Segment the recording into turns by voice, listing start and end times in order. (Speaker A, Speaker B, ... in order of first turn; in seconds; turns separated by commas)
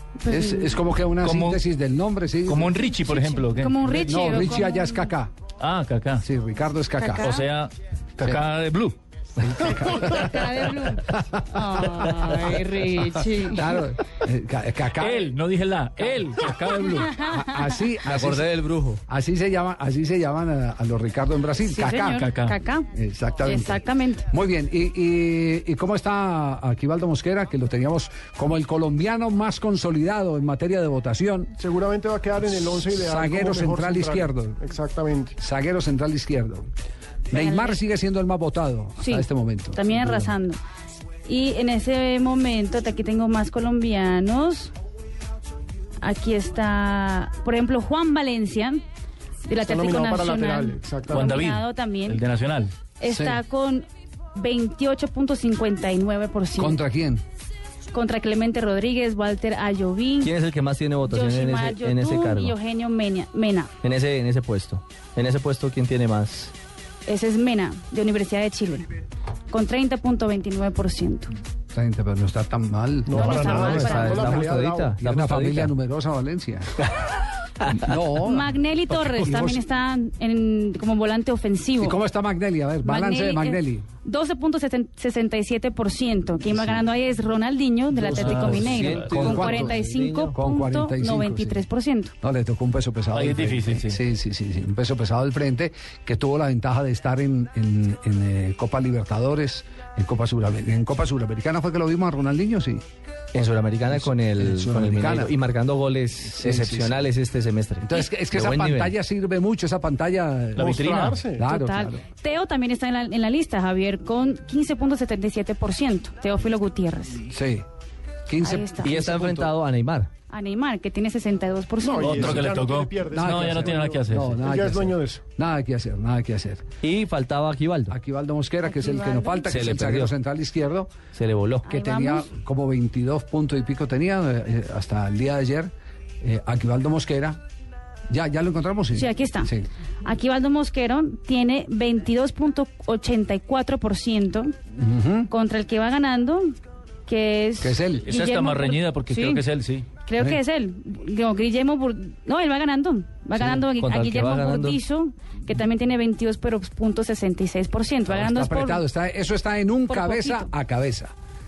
Speaker A: 0.2-0.7, Speaker B: 0.3-2.8, Speaker C: 1.2-1.6, Speaker C: 2.5-3.9, Speaker A: 3.0-5.1, Speaker B: 3.9-5.3, Speaker C: 5.6-6.2, Speaker B: 6.2-7.3, Speaker A: 7.0-7.5, Speaker C: 7.2-9.0, Speaker B: 9.4-12.1, Speaker A: 9.8-13.8, Speaker B: 13.4-15.3, Speaker C: 15.0-17.2, Speaker A: 16.9-17.7, Speaker B: 17.2-18.5, Speaker D: 18.1-19.0, Speaker B: 19.1-22.3, Speaker A: 21.6-22.9, Speaker C: 22.1-22.6, Speaker B: 22.9-31.5, Speaker A: 23.4-24.2, Speaker E: 31.6-35.4, Speaker B: 32.6-34.6, Speaker B: 35.4-36.7, Speaker B: 37.3-40.1, Speaker A: 37.3-37.8, Speaker A: 39.0-40.6, Speaker A: 41.2-44.7, Speaker A: 46.0-48.8, Speaker A: 49.5-52.2, Speaker E: 49.6-51.3, Speaker C: 51.0-52.7, Speaker A: 53.0-56.8, Speaker B: 53.0-53.4, Speaker B: 56.6-57.2, Speaker A: 57.9-60.3, Speaker D: 60.2-62.5, Speaker A: 61.0-63.7, Speaker D: 63.8-66.5, Speaker A: 67.1-68.9, Speaker A: 69.5-71.3, Speaker B: 71.7-74.4, Speaker E: 73.0-75.0, Speaker A: 73.1-74.4, Speaker D: 73.4-75.7, Speaker B: 75.0-76.8, Speaker B: 77.8-79.6, Speaker A: 78.2-82.0, Speaker B: 81.8-83.8, Speaker A: 82.8-92.1, Speaker B: 86.5-86.8, Speaker D: 88.0-90.3, Speaker B: 88.0-89.7, Speaker C: 88.2-88.7, Speaker B: 90.3-91.6, Speaker B: 92.2-102.8, Speaker C: 93.1-94.0, Speaker D: 103.3-108.9, Speaker B: 103.9-105.3, Speaker B: 106.4-107.0, Speaker B: 107.8-112.0, Speaker E: 110.5-111.4, Speaker A: 111.4-117.2, Speaker B: 117.3-117.6, Speaker B: 118.3-119.5, Speaker A: 118.4-119.0, Speaker D: 118.8-120.1, Speaker A: 120.3-122.4, Speaker E: 121.8-125.2, Speaker C: 122.0-124.3, Speaker B: 123.1-126.7, Speaker D: 126.8-127.9, Speaker B: 127.9-130.9, Speaker A: 128.6-129.7, Speaker D: 129.5-130.1, Speaker D: 131.1-131.7, Speaker A: 131.6-132.3, Speaker B: 131.7-137.4, Speaker B: 138.1-139.7, Speaker A: 138.9-139.5, Speaker A: 140.0-144.5, Speaker B: 144.8-145.3, Speaker A: 145.3-146.5, Speaker A: 147.1-149.4, Speaker B: 147.6-148.0, Speaker C: 148.0-149.9, Speaker A: 150.0-158.8, Speaker D: 153.3-154.8, Speaker B: 158.1-161.1, Speaker A: 159.9-160.5